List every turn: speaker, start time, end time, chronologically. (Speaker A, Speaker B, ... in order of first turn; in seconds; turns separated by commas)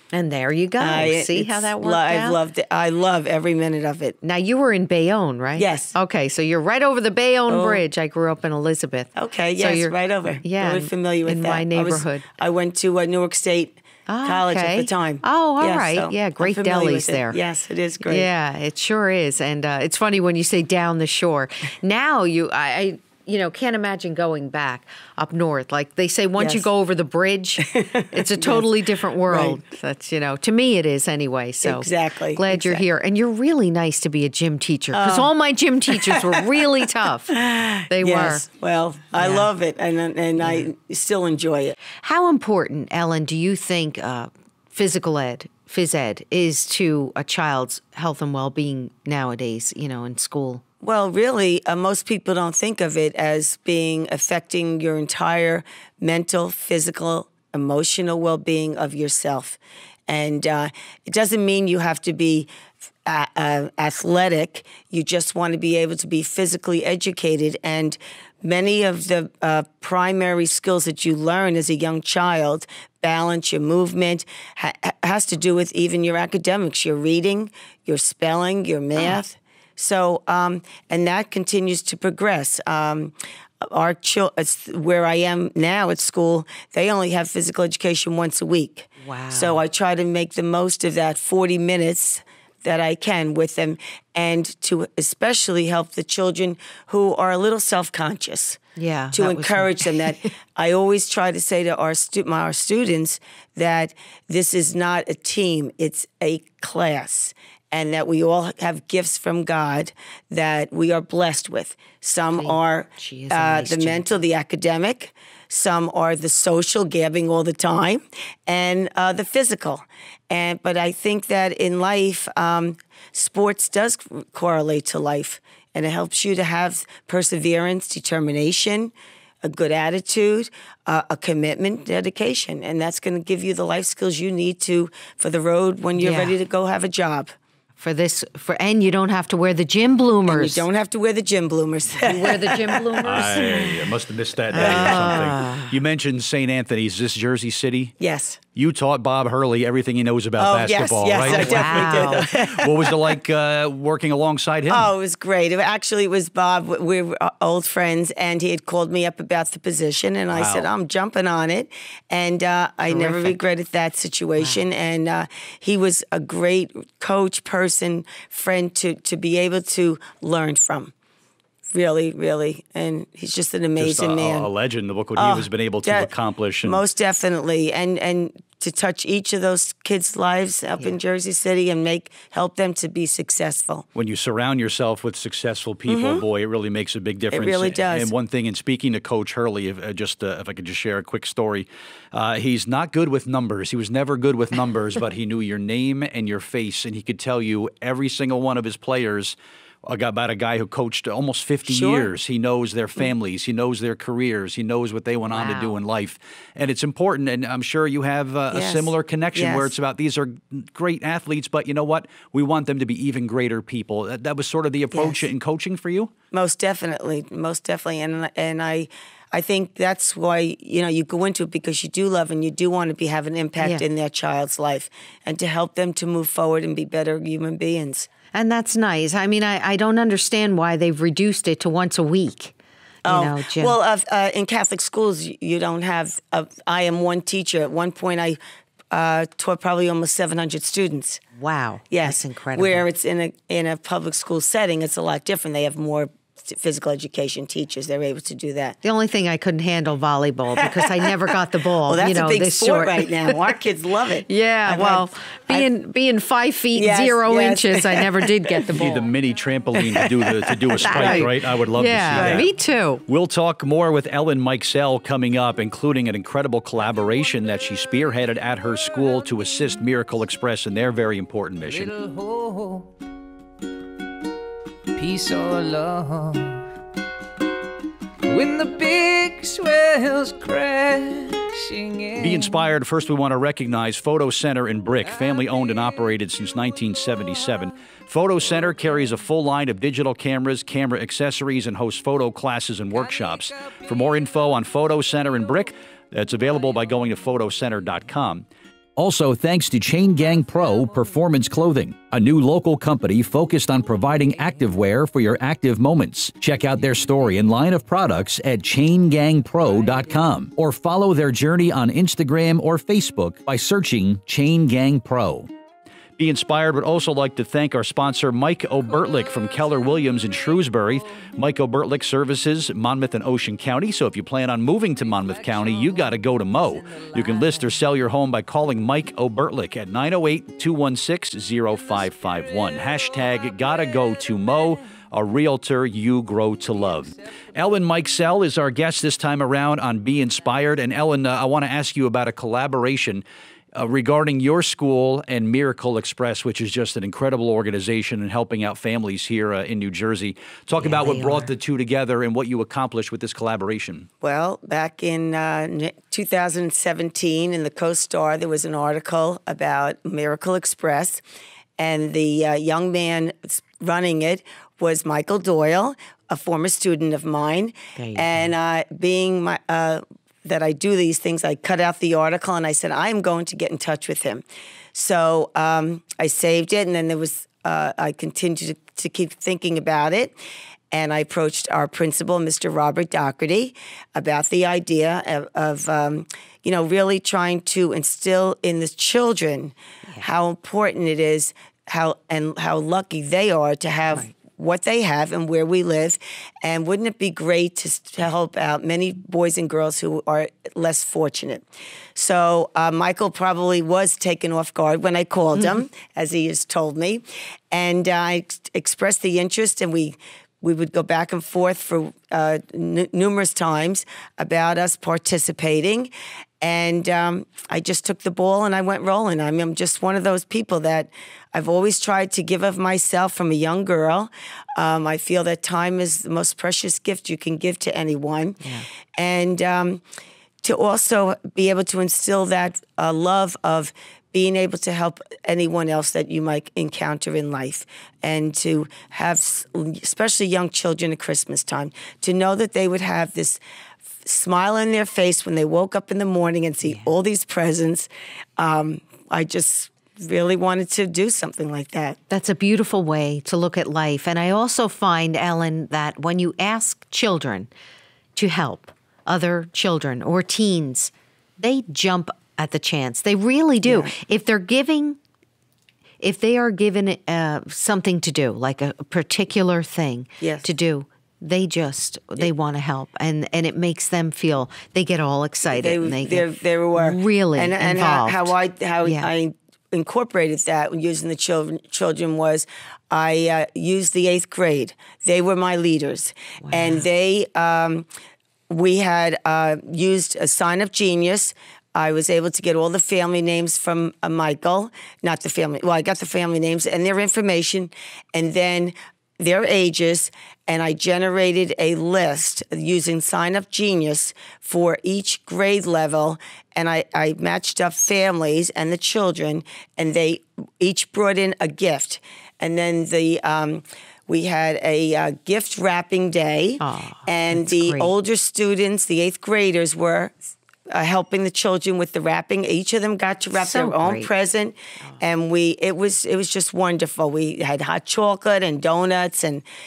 Speaker A: 0.1-2.4, Speaker B: 0.8-4.2, Speaker A: 4.2-12.3, Speaker B: 5.6-6.0, Speaker B: 7.5-7.8, Speaker B: 9.2-18.3, Speaker A: 14.1-17.4, Speaker A: 18.1-37.4, Speaker B: 26.4-26.7, Speaker B: 27.6-28.7, Speaker B: 29.3-29.6, Speaker B: 31.6-32.9, Speaker B: 34.9-35.3, Speaker B: 35.9-36.5, Speaker B: 37.3-41.8, Speaker A: 37.9-38.5, Speaker A: 39.2-39.5, Speaker A: 42.0-50.6, Speaker B: 50.8-62.5, Speaker B: 63.1-98.6, Speaker A: 89.0-89.6, Speaker A: 98.8-100.3, Speaker B: 99.1-137.3, Speaker A: 112.3-114.2, Speaker A: 136.0-136.4, Speaker A: 137.8-140.7, Speaker B: 140.3-143.3, Speaker A: 142.0-143.8, Speaker C: 143.0-147.9, Speaker A: 144.5-145.8, Speaker B: 144.5-145.3, Speaker B: 148.0-148.4, Speaker C: 148.6-154.9, Speaker B: 150.4-153.0, Speaker A: 151.2-152.3, Speaker B: 154.7-170.9, Speaker C: 160.3-160.7, Speaker A: 162.9-163.4, Speaker A: 164.4-164.7, Speaker B: 171.7-174.5, Speaker C: 173.8-176.8, Speaker B: 175.2-176.1, Speaker B: 176.6-183.8, Speaker C: 183.9-216.1, Speaker B: 185.9-186.2, Speaker B: 187.3-188.1, Speaker B: 201.7-202.1, Speaker A: 205.3-205.7, Speaker B: 208.5-209.7, Speaker B: 214.9-215.2, Speaker B: 216.3-228.1, Speaker A: 228.3-232.5, Speaker B: 233.1-238.4, Speaker A: 233.1-233.8, Speaker B: 238.9-241.2, Speaker A: 241.4-242.8, Speaker B: 241.9-248.8, Speaker A: 248.8-253.4, Speaker B: 250.6-251.1, Speaker B: 251.8-255.7, Speaker A: 254.2-259.1, Speaker B: 256.8-258.7, Speaker C: 258.7-262.5, Speaker B: 259.8-260.8, Speaker A: 260.8-263.0, Speaker B: 262.1-262.5, Speaker C: 263.1-271.9, Speaker D: 271.6-272.9, Speaker D: 275.0-276.6, Speaker D: 278.2-282.6, Speaker C: 282.2-298.4, Speaker D: 285.2-285.7, Speaker D: 293.2-293.8, Speaker C: 299.0-315.5, Speaker D: 300.1-301.4, Speaker D: 304.0-304.9, Speaker D: 309.7-310.4, Speaker C: 316.2-343.2, Speaker D: 319.2-320.3, Speaker D: 325.0-327.6, Speaker C: 343.8-354.1, Speaker A: 350.8-351.5, Speaker B: 354.2-361.2, Speaker B: 361.8-380.4, Speaker A: 368.0-368.5, Speaker B: 380.9-401.6, Speaker B: 402.1-430.0, Speaker B: 430.6-443.6, Speaker B: 444.2-452.2, Speaker A: 452.3-457.7, Speaker A: 458.4-465.2, Speaker B: 463.9-464.1, Speaker A: 466.2-479.3, Speaker B: 470.4-470.7, Speaker B: 475.7-488.1, Speaker A: 486.6-487.0, Speaker B: 488.7-520.4, Speaker A: 516.8-518.1, Speaker B: 520.9-529.7, Speaker A: 523.5-524.3